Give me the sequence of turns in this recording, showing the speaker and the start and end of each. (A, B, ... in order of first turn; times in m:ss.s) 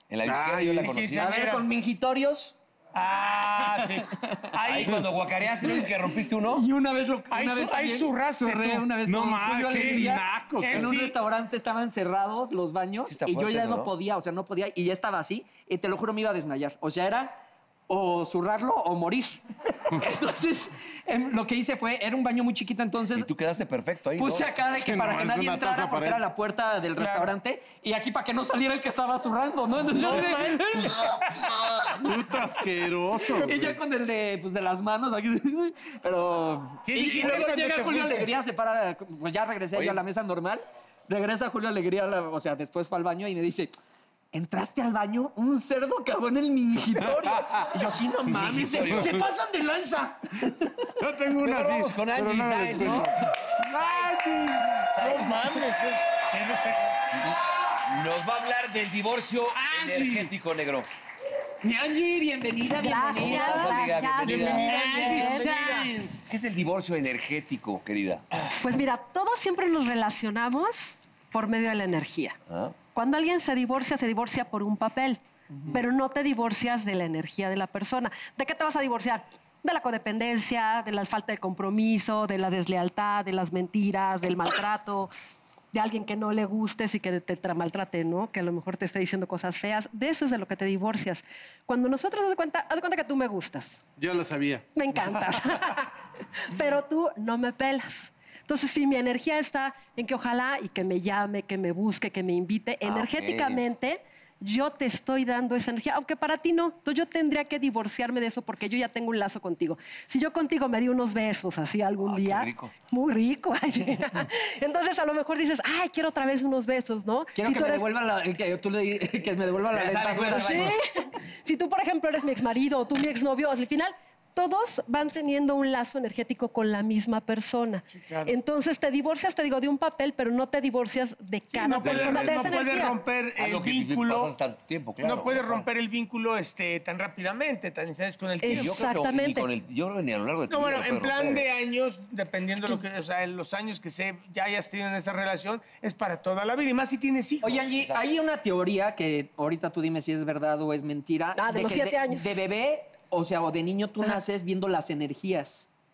0:00.1-0:01.3 A
0:00.3-0:00.9 B
0:00.8-0:01.6 C
0:01.1-0:02.6 D
0:02.9-0:05.0 C
0:04.6-0:06.7 A
0:06.4-0:17.4 D
0:07.3-0:08.8 C
0:08.5-0:10.9 B
0:09.7-0:10.0 C
0:10.6-0:11.2 C
0:13.0-0:13.9 A
0:17.9-0:23.3 D
0:23.1-0:24.5 A
0:24.2-0:32.4 D
0:24.7-0:26.2 B
0:27.0-0:27.3 C
0:29.9-0:31.4 C
0:32.0-0:33.8 B
0:33.4-0:43.7 D
0:36.8-0:38.3 C
0:39.7-0:40.0 A
0:44.3-0:50.9 D
0:47.0-0:47.8 B
0:48.4-0:49.2 A
0:48.8-0:49.2 B
0:51.0-0:53.2 B
0:51.4-0:53.3 A
0:53.7-0:54.3 C
0:53.8-0:54.8 B
0:54.8-0:57.2 C
0:54.9-0:55.6 A
0:57.8-1:00.9 A
0:59.8-1:00.3 B
1:01.6-1:03.8 D
1:02.8-1:05.5 E
1:03.1-1:04.7 A
1:04.2-1:06.1 C
1:04.6-1:06.2 B
1:06.3-1:08.2 A
1:08.6-1:12.4 E
1:12.5-1:12.8 A
1:12.9-1:25.1 E
1:25.7-1:33.8 E
1:34.0-1:34.6 B
1:34.8-1:35.9 E
1:36.5-1:57.9 E
1:42.8-1:43.6 A
1:52.0-1:52.8 A
1:57.4-2:00.8 D
1:59.7-2:00.8 A
2:00.4-2:13.0 E
2:08.0-2:08.4 C
2:11.5-2:14.3 C
2:11.8-2:12.6 B
2:13.4-2:15.7 A
2:15.0-2:18.8 C
2:18.4-2:19.5 E
2:18.5-2:21.5 A
2:20.5-2:27.6 C
2:27.4-2:35.7 D
2:27.5-2:28.0 A
2:31.4-2:32.4 E